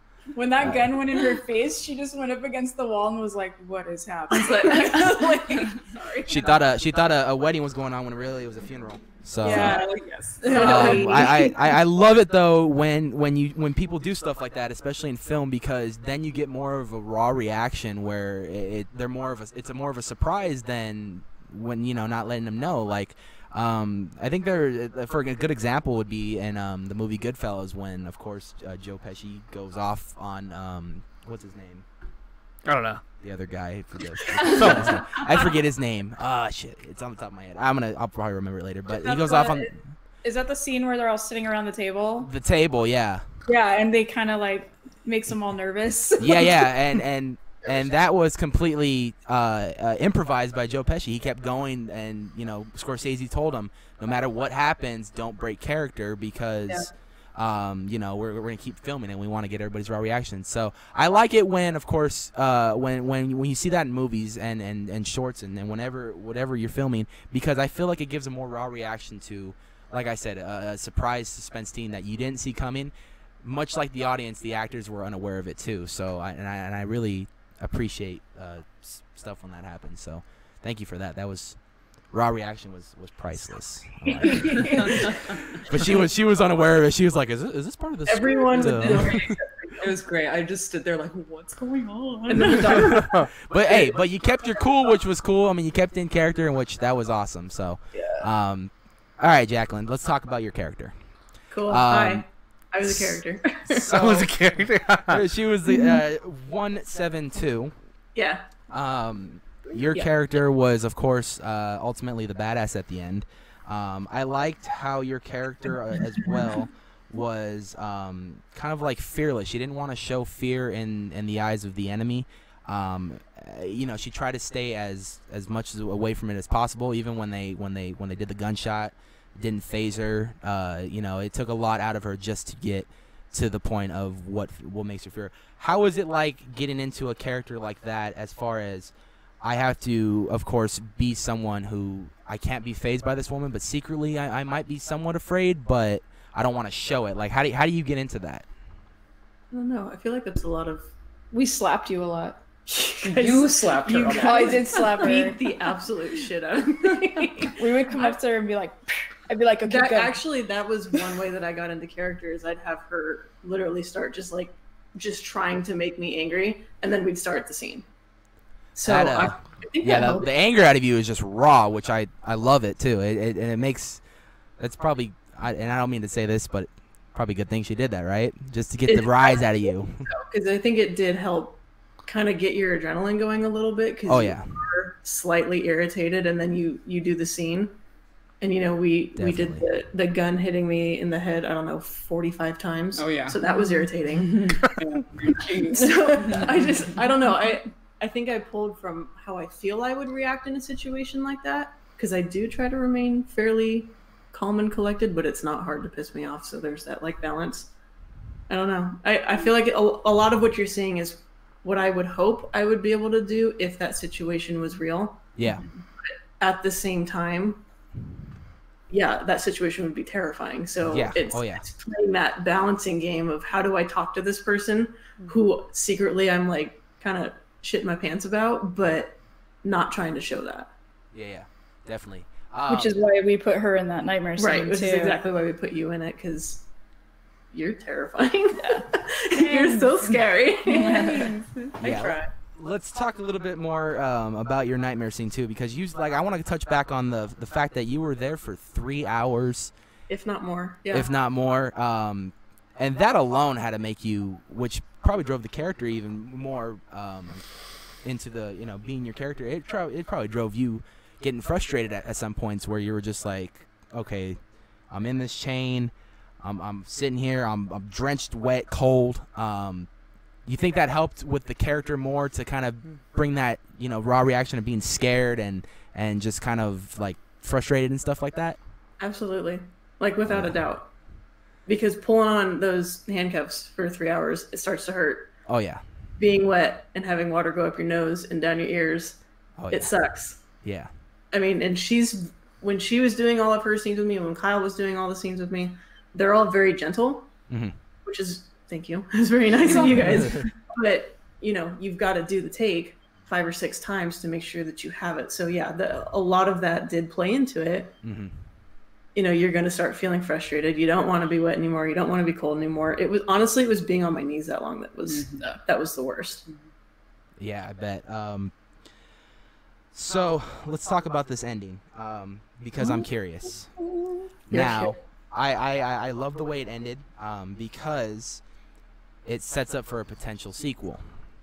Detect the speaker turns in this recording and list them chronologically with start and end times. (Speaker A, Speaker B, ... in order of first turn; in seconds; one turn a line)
Speaker A: 0.3-5.7
Speaker B: 4.3-6.6
Speaker C: 6.2-9.8
Speaker A: 9.4-9.9
Speaker B: 9.4-11.7
Speaker D: 9.7-11.2
Speaker C: 10.5-31.9
Speaker A: 10.5-10.8
Speaker E: 32.6-33.0
Speaker C: 33.2-39.8
Speaker E: 34.4-35.0
Speaker A: 38.9-39.7
Speaker A: 40.2-42.3
Speaker C: 42.2-43.2
Speaker A: 43.5-46.6
Speaker C: 46.2-81.6
Speaker C: 82.1-89.4
Speaker B: 84.1-86.0
Speaker B: 88.1-89.8
Speaker D: 88.6-89.2
Speaker D: 89.8-92.9
Speaker B: 92.3-93.1
Speaker A: 92.5-92.9
Speaker C: 92.7-100.9
Speaker E: 92.9-93.3
Speaker B: 98.0-98.2
Speaker B: 101.5-103.9
Speaker C: 101.7-102.2
Speaker C: 102.8-104.3
Speaker E: 103.9-105.2
Speaker C: 105.1-107.7
Speaker B: 108.1-108.5
Speaker C: 108.7-148.5
Speaker B: 109.8-110.1
Speaker B: 149.5-150.8
Speaker A: 151.3-152.4
Speaker B: 152.7-158.2
Speaker D: 153.0-155.0
Speaker A: 154.2-155.4
Speaker A: 157.6-160.2
Speaker B: 159.7-167.8
Speaker B: 168.8-170.3
Speaker C: 168.8-174.0
Speaker C: 174.6-180.1
Speaker B: 178.9-187.8
Speaker C: 184.1-184.6
Speaker B: 188.4-194.5
Speaker C: 189.2-189.7
Speaker D: 192.9-196.6
Speaker B: 195.7-207.7
Speaker B: 208.5-215.3
Speaker C: 215.3-215.6
Speaker B: 216.0-217.6
Speaker B: 218.9-230.7
Speaker C: 220.8-221.6
Speaker C: 231.1-233.0
Speaker A: 232.7-235.2
Speaker B: 234.4-236.7
Speaker B: 237.5-242.3
Speaker A: 238.6-239.9
Speaker A: 240.7-241.4
Speaker D: 241.0-241.7
Speaker C: 241.8-249.7
Speaker B: 250.1-251.1
Speaker C: 250.9-257.4
Speaker C: 258.0-264.4
Speaker C: 264.9-269.9
Speaker C: 270.4-278.6
Speaker B: 279.0-280.9
Speaker C: 280.2-280.6
Speaker B: 281.6-285.3
Speaker C: 285.5-285.8
Speaker B: 286.2-289.2
Speaker C: 289.6-289.9
Speaker B: 289.7-290.4
Speaker C: 290.6-290.9
Speaker B: 291.3-297.3
Speaker C: 297.5-297.8
Speaker B: 298.0-307.9
Speaker C: 300.1-300.4
Speaker C: 308.0-308.3
Speaker B: 309.1-316.5
Speaker D: 315.1-315.5
Speaker C: 317.4-318.5
Speaker C: 319.9-323.7
Speaker B: 324.5-325.0
Speaker C: 324.5-328.4
Speaker C: 329.2-331.0